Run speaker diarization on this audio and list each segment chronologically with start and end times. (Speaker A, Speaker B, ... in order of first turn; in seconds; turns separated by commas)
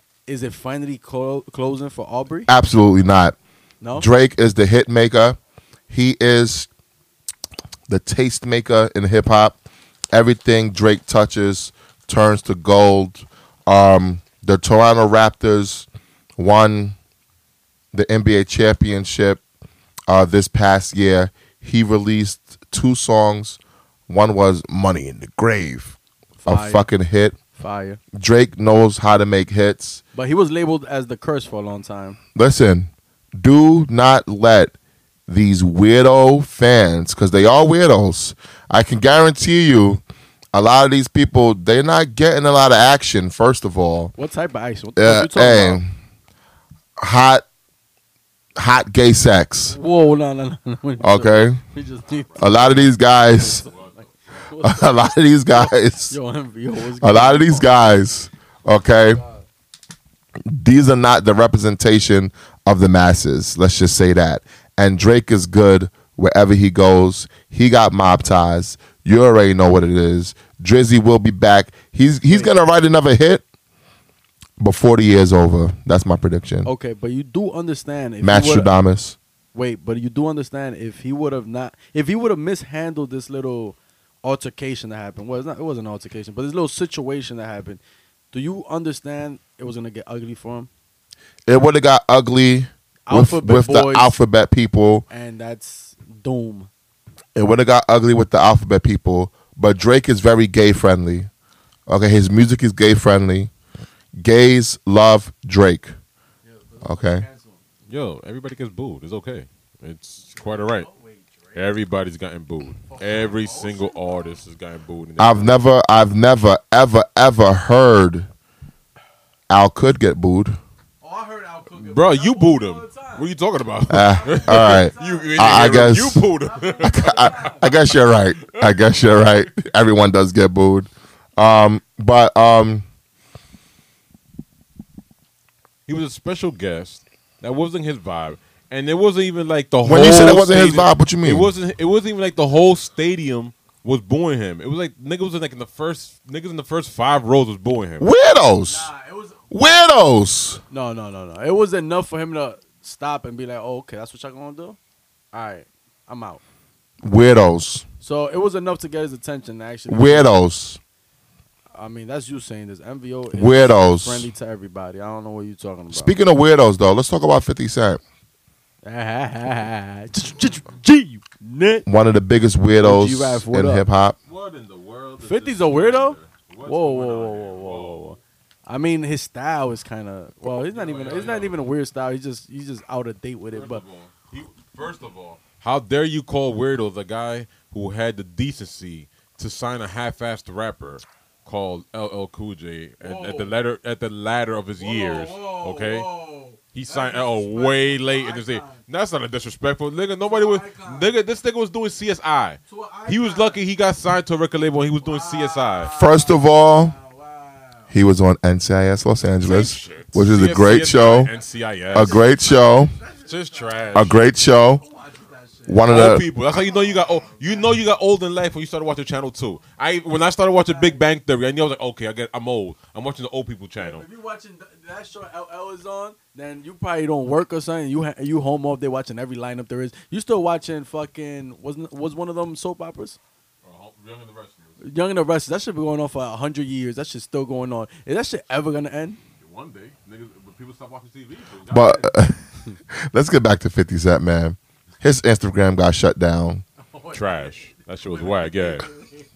Speaker A: 0.3-2.5, Speaker B: 2.5-3.4, Speaker A: 3.8-4.1, Speaker B: 4.0-5.4, Speaker B: 5.9-6.7, Speaker B: 7.9-9.6, Speaker B: 10.1-15.8, Speaker B: 16.4-17.0, Speaker B: 17.9-19.4, Speaker B: 20.1-27.4, Speaker A: 26.4-26.9, Speaker A: 27.5-28.0, Speaker B: 28.1-30.0, Speaker A: 30.1-32.2, Speaker B: 32.3-34.7, Speaker B: 35.3-40.0, Speaker B: 40.5-44.1, Speaker A: 44.2-45.8, Speaker B: 45.0-45.9, Speaker B: 47.0-47.4, Speaker B: 48.6-49.8, Speaker A: 49.7-53.7, Speaker B: 51.0-51.6, Speaker C: 52.1-52.8, Speaker B: 52.4-53.6, Speaker C: 53.6-54.1, Speaker A: 54.3-57.7, Speaker B: 54.6-56.1, Speaker B: 57.0-59.2, Speaker D: 59.1-59.4, Speaker B: 60.5-73.4, Speaker B: 74.6-76.7, Speaker A: 76.6-78.7, Speaker B: 78.2-79.2, Speaker A: 79.5-87.8, Speaker A: 88.3-90.7, Speaker B: 91.5-95.0, Speaker A: 93.1-94.1, Speaker A: 95.1-96.7, Speaker B: 97.3-101.3, Speaker B: 101.9-103.5, Speaker B: 104.2-105.9, Speaker D: 106.4-107.5, Speaker B: 106.8-107.2, Speaker A: 107.2-107.5, Speaker C: 107.9-110.9, Speaker D: 110.3-111.7, Speaker C: 111.5-115.7, Speaker A: 112.9-113.9, Speaker D: 112.9-114.2, Speaker B: 115.2-118.3, Speaker B: 119.5-120.6, Speaker A: 121.0-123.2, Speaker C: 121.8-129.4, Speaker B: 123.9-126.3, Speaker A: 124.3-125.6, Speaker D: 124.6-125.9, Speaker A: 126.4-127.6, Speaker D: 126.8-127.5, Speaker B: 126.8-132.8, Speaker C: 135.9-148.1, Speaker B: 139.8-141.5, Speaker B: 148.0-148.9, Speaker D: 148.7-149.7, Speaker B: 149.5-150.6, Speaker A: 150.7-154.8, Speaker A: 155.3-156.4, Speaker B: 157.0-157.8, Speaker A: 158.0-160.3, Speaker B: 159.9-160.8, Speaker A: 161.7-166.2, Speaker B: 163.3-164.3, Speaker B: 165.9-168.0, Speaker A: 168.8-171.8, Speaker B: 171.8-174.2, Speaker A: 172.8-173.8, Speaker C: 174.3-178.2, Speaker A: 175.2-183.8, Speaker C: 180.4-181.6, Speaker C: 183.5-196.1, Speaker A: 193.0-193.5, Speaker A: 194.8-198.8, Speaker D: 194.9-196.0, Speaker C: 196.7-205.9, Speaker A: 200.3-201.1, Speaker A: 202.7-203.5, Speaker A: 205.1-206.4, Speaker B: 205.9-206.9, Speaker A: 207.0-207.9, Speaker B: 207.9-211.3, Speaker C: 209.4-212.2, Speaker B: 211.9-212.9, Speaker D: 212.1-214.0, Speaker A: 212.2-213.1, Speaker C: 213.2-214.2, Speaker B: 213.9-214.8, Speaker A: 214.8-215.8, Speaker D: 214.9-215.2, Speaker B: 215.7-216.2, Speaker C: 215.9-224.1, Speaker D: 216.0-217.6, Speaker A: 223.8-233.2, Speaker C: 233.6-234.8, Speaker A: 234.8-239.2, Speaker C: 239.4-242.1, Speaker B: 241.7-242.4, Speaker B: 242.9-246.6, Speaker D: 246.9-247.5, Speaker C: 247.1-248.9, Speaker D: 248.1-249.2